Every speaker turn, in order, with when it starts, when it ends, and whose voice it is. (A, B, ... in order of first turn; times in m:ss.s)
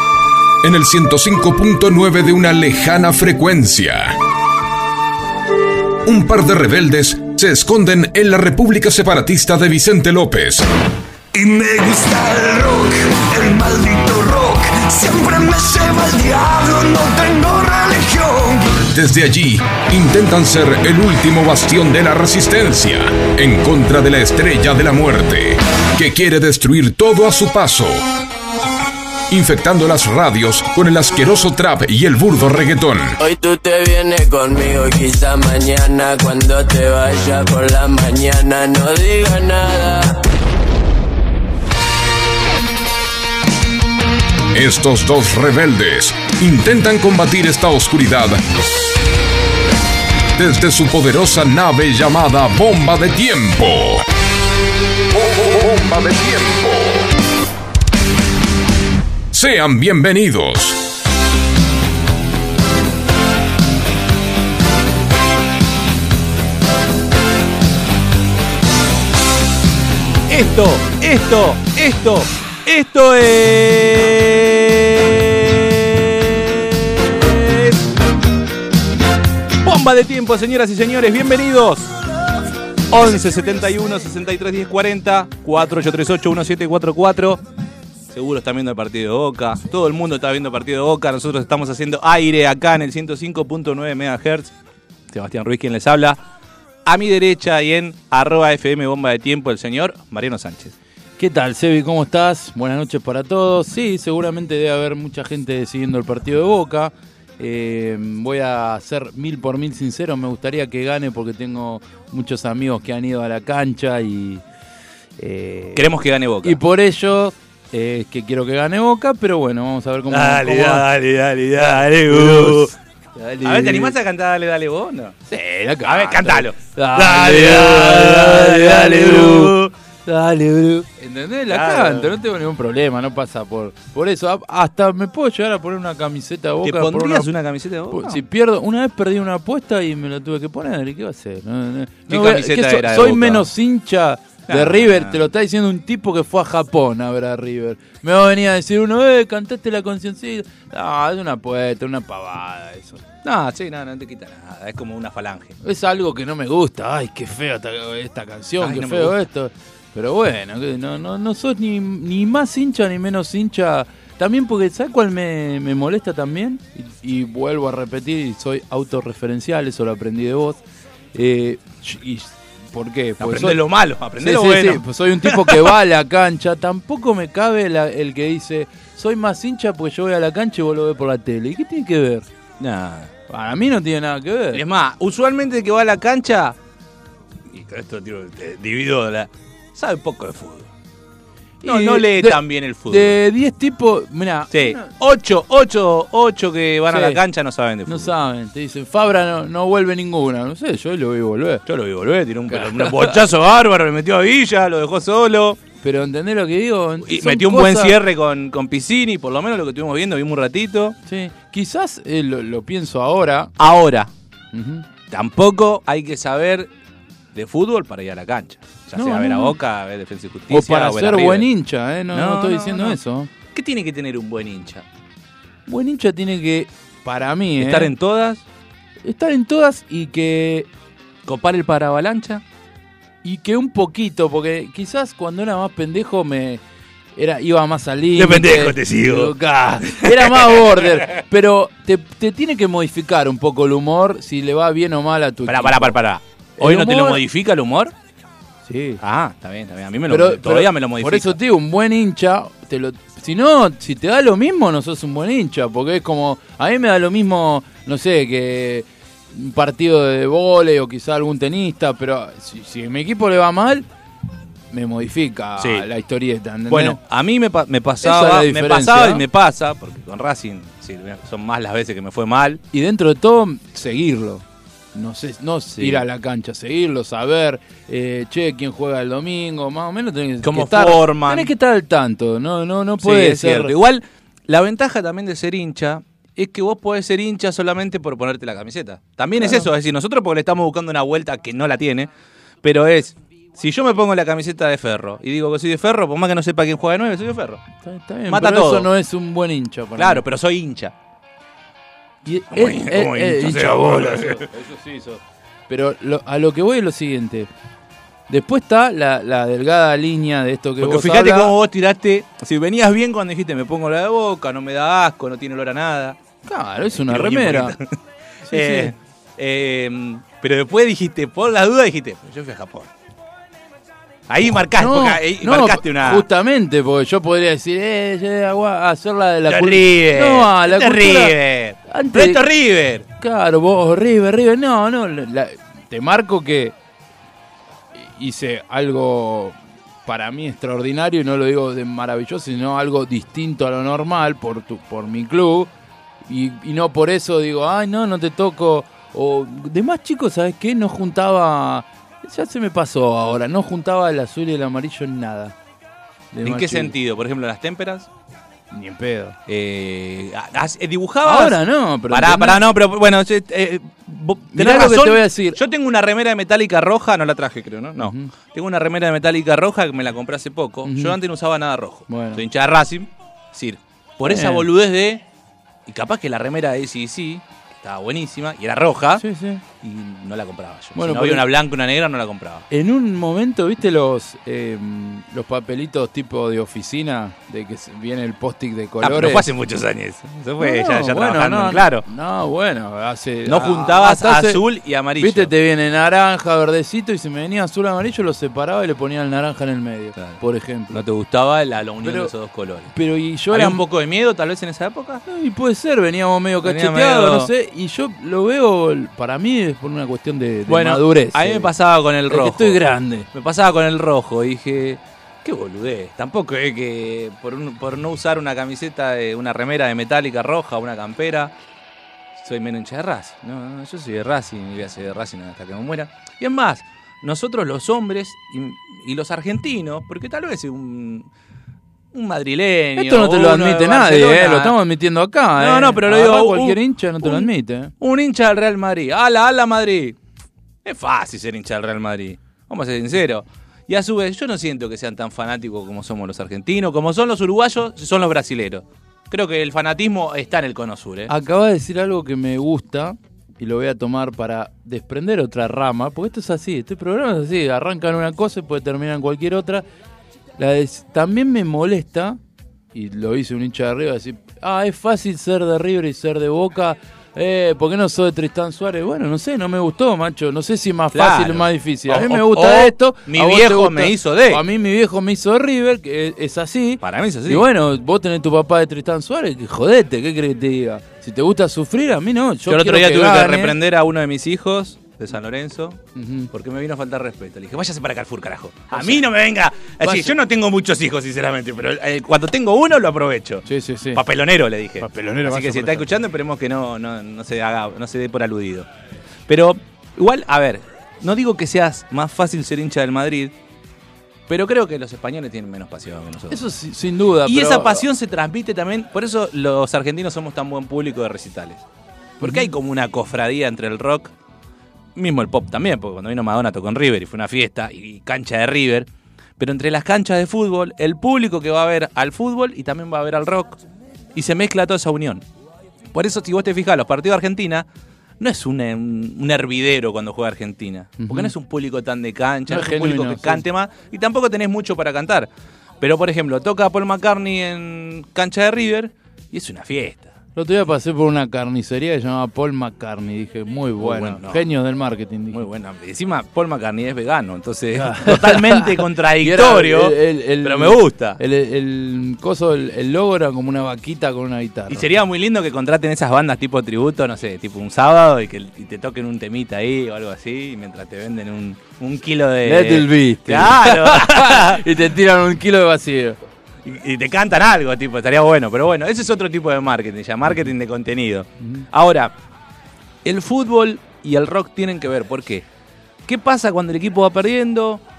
0:00.6-0:04.2 A
0:06.0-0:10.7 A
0:11.3-0:18.8 B
0:18.8-0:28.1 A
0:29.3-0:33.2 A
0:33.2-0:40.2 C
0:44.5-0:48.4 A
0:50.4-0:54.1 A
0:55.1-0:57.1 A
0:59.3-1:00.8 A
1:10.3-1:17.9 D
1:19.6-1:21.9 D
1:22.9-1:27.4 D
1:28.1-1:34.5 D
1:35.1-1:36.2 D
1:36.8-1:40.7 D
1:41.2-1:54.4 E
1:55.2-1:55.9 E
1:55.8-1:56.6 D
1:56.4-2:00.8 E
2:00.1-2:02.7 D
2:02.1-2:04.0 E
2:03.4-2:05.2 D
2:05.3-2:17.3 E
2:05.8-2:09.7 D
2:11.5-2:12.1 D
2:16.6-2:18.2 D
2:17.9-2:33.0 E
2:22.1-2:23.5 D
2:24.5-2:25.2 D
2:33.2-2:35.6 D
2:35.6-2:50.6 E
2:38.6-2:39.2 D
2:51.1-2:53.6 E
2:53.2-2:55.8 D
2:54.2-3:02.3 E
3:02.6-3:03.1 D
3:03.3-3:04.6 E
3:04.5-3:06.6 D
3:07.5-3:10.7 D
3:11.6-3:14.9 E
3:11.6-3:13.2 D
3:14.5-3:18.1 D
3:16.9-3:17.2 E
3:17.9-3:21.6 E
3:21.7-3:25.6 D
3:22.5-3:23.2 E
3:25.8-3:28.0 E
3:27.0-3:31.0 D
3:31.1-3:33.5 E
3:33.6-3:34.1 D
3:34.5-3:34.9 E
3:35.1-3:36.7 D
3:37.3-3:41.5 D
3:39.0-3:39.6 E
3:40.5-3:43.3 E
3:42.1-3:43.0 D
3:43.5-3:44.8 D
3:45.7-3:47.9 E
3:47.6-3:48.4 D
3:49.0-3:50.7 E
3:51.3-3:52.4 D
3:53.2-3:56.6 E
3:57.2-4:06.0 E
3:58.2-3:59.3 D
3:59.9-4:00.8 D
4:05.5-4:07.9 D
4:06.6-4:07.2 E
4:08.7-4:09.0 E
4:09.0-4:11.4 D
4:10.1-4:23.9 E
4:24.7-4:27.0 E
4:25.6-4:25.9 D
4:26.7-4:32.6 D
4:28.0-4:29.2 E
4:32.7-4:34.4 E
4:34.9-4:43.7 E
4:35.8-4:36.0 D
4:40.4-4:41.5 D
4:43.0-4:52.1 D
4:49.4-4:49.7 E
4:52.6-4:57.6 D
4:57.8-5:00.2 E
4:58.3-4:58.9 D
5:00.0-5:00.9 D
5:02.2-5:07.5 E
5:02.5-5:04.5 D
5:08.3-5:11.5 E
5:10.8-5:16.2 D
5:16.5-5:17.8 E
5:16.9-5:17.9 D
5:18.5-5:18.9 E
5:18.5-5:22.9 D
5:24.3-5:26.3 D
5:24.5-5:31.4 E
5:29.5-5:33.1 D
5:31.9-5:32.4 E
5:33.2-5:36.8 E
5:37.9-5:45.7 E
5:46.3-5:55.6 E
5:56.3-5:56.9 E
5:56.4-5:58.1 D
5:58.7-5:59.4 E
5:59.5-6:15.2 D
6:01.2-6:02.6 E
6:04.5-6:05.6 E
6:08.0-6:08.3 E
6:10.8-6:11.2 E
6:12.1-6:12.4 E
6:14.2-6:14.7 E
6:15.9-6:19.2 D
6:19.2-6:19.6 E
6:19.8-6:22.7 D
6:21.0-6:21.5 E
6:22.7-6:29.5 E
6:29.0-6:32.0 D
6:30.6-6:34.6 E
6:33.5-6:35.5 D
6:35.2-6:41.0 E
6:40.9-6:42.9 D
6:42.0-6:42.3 E
6:42.9-6:43.8 E
6:43.5-6:45.2 D
6:45.3-6:51.7 E
6:46.6-6:47.5 D
6:50.7-6:52.8 D
6:52.3-6:53.3 E
6:53.3-7:01.5 D
7:02.4-7:11.3 D
7:12.1-7:14.8 D
7:13.0-7:17.9 E
7:15.6-7:20.2 D
7:20.8-7:31.3 D
7:31.3-7:39.8 E
7:40.6-7:42.4 E
7:42.9-8:03.8 E
7:51.1-7:54.6 D
7:57.0-7:57.7 D
8:02.7-8:06.0 D
8:06.2-8:06.5 E
8:06.5-8:18.9 D
8:08.9-8:09.2 E
8:10.0-8:10.4 E
8:13.7-8:14.2 E
8:15.0-8:16.1 E
8:19.5-8:23.5 D
8:24.5-8:26.6 D
8:26.5-8:28.0 E
8:27.5-8:31.8 D
8:32.4-8:32.7 E
8:32.4-8:34.3 D
8:35.2-8:39.1 D
8:39.6-8:43.8 D
8:44.4-8:45.4 D
8:46.1-8:47.9 D
8:48.4-8:55.5 D
8:51.2-8:51.5 E
8:52.7-8:53.6 E
8:56.0-9:00.3 D
9:00.6-9:05.6 E
9:04.0-9:04.6 D
9:05.5-9:11.4 D
9:08.0-9:15.1 E
9:14.9-9:24.8 D
9:22.6-9:26.4 E
9:26.8-9:32.3 D
9:31.6-9:31.9 E
9:33.2-9:35.7 D
9:36.3-9:38.0 D